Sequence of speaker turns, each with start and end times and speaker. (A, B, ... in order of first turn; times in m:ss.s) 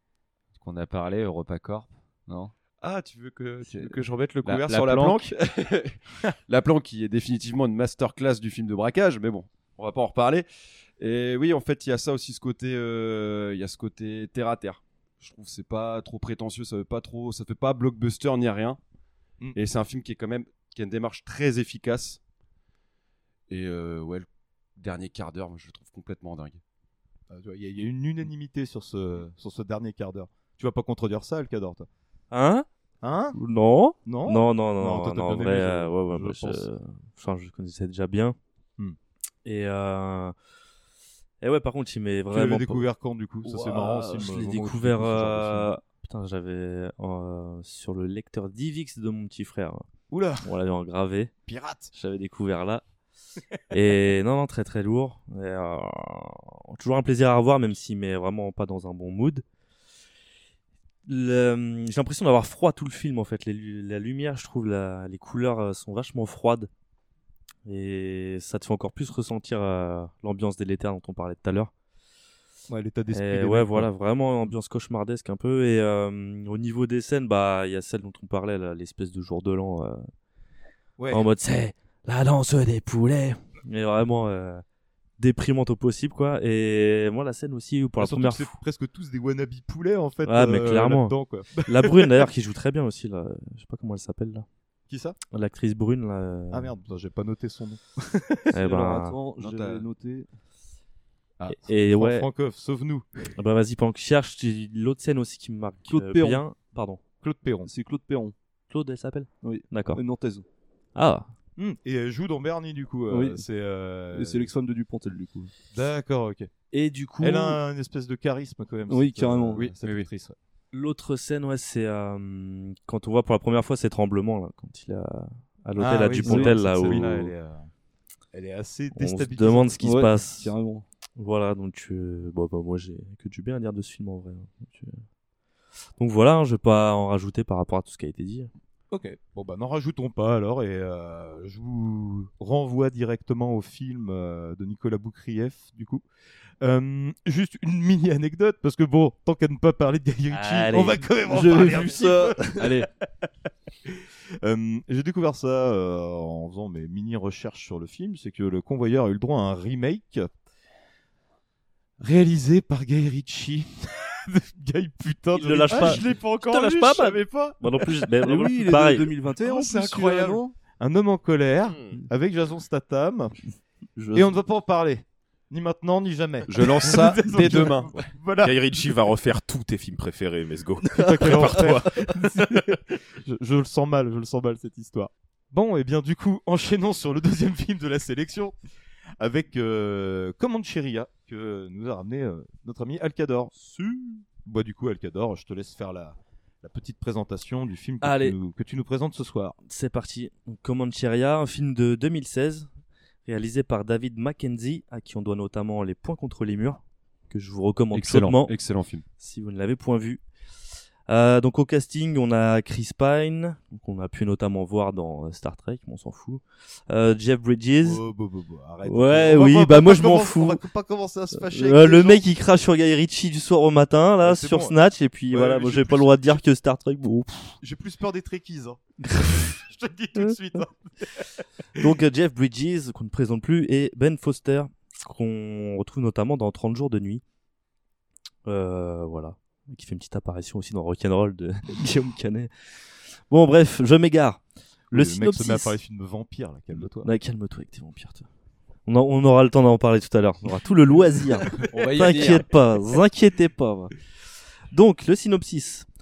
0:00.5-0:02.5 A
0:02.8-0:10.5 B
0:03.6-0:05.3 A
0:11.0-0:18.8 B
0:19.5-0:22.2 B
0:23.5-0:26.6 B
0:27.3-0:31.9 C
0:32.3-0:32.6 D
0:33.0-0:33.4 C
0:33.3-0:38.4 D
0:34.0-0:36.6 C
0:39.4-0:40.3 D
0:41.4-0:42.8 D
0:42.3-0:45.7 C
0:43.4-0:49.8 D
0:50.1-0:50.5 C
0:50.4-0:51.3 D
0:51.5-0:51.9 C
0:51.9-0:52.8 D
0:53.7-0:59.4 D
1:01.0-1:06.7 D
1:07.6-1:11.7 D
1:12.7-1:13.9 C
1:13.1-1:20.0 D
1:21.0-1:21.2 C
1:21.1-1:24.6 D
1:25.2-1:28.5 D
1:28.0-1:32.2 C
1:30.2-1:34.4 D
1:34.9-1:35.2 C
1:35.3-1:36.7 D
1:36.5-1:38.4 C
1:38.5-1:39.2 D
1:38.5-1:40.3 E
1:39.4-1:39.8 B
1:41.4-1:43.1 C
1:41.5-1:42.3 D
1:43.4-1:47.0 D
1:45.9-1:46.4 E
1:47.2-1:47.7 C
1:47.6-1:48.3 E
1:48.7-1:50.0 D
1:49.4-1:50.4 E
1:51.0-1:51.3 D
1:51.6-1:54.5 C
1:53.1-1:53.4 E
1:54.1-1:55.5 E
1:55.7-1:56.5 C
1:56.7-1:57.6 D
1:57.2-2:00.4 C
1:58.9-1:59.7 E
1:59.6-2:00.1 B
2:00.7-2:07.3 D
2:05.8-2:07.7 C
2:06.2-2:06.6 E
2:08.3-2:09.8 C
2:08.9-2:10.5 D
2:09.8-2:10.8 E
2:11.2-2:15.0 D
2:16.0-2:18.5 D
2:18.9-2:26.0 C
2:26.6-2:32.7 C
2:30.3-2:31.1 D
2:31.2-2:32.8 E
2:33.8-2:40.3 C
2:42.0-2:47.6 C
2:45.3-2:49.1 D
2:48.2-2:50.5 E
2:49.4-2:53.3 C
2:51.7-2:51.9 F
2:54.0-2:54.4 E
2:54.1-2:58.6 C
2:56.5-2:57.9 B
2:58.4-3:02.0 F
3:00.9-3:08.6 C
3:09.2-3:13.5 C
3:13.6-3:14.2 D
3:14.4-3:19.6 C
3:18.0-3:18.4 D
3:19.7-3:22.7 D
3:23.2-3:28.5 D
3:27.9-3:29.0 B
3:29.2-3:30.2 D
3:31.1-3:38.0 D
3:37.8-3:42.2 C
3:38.8-3:40.6 D
3:41.4-3:47.6 D
3:44.2-3:44.8 C
3:45.3-3:46.4 C
3:47.6-3:48.8 C
3:49.1-3:49.5 D
3:49.5-3:50.9 C
3:51.8-3:57.2 D
3:58.4-4:02.5 D
4:03.3-4:05.8 D
4:04.9-4:07.1 C
4:07.0-4:08.2 D
4:08.8-4:13.9 D
4:12.1-4:12.4 A
4:14.7-4:15.9 D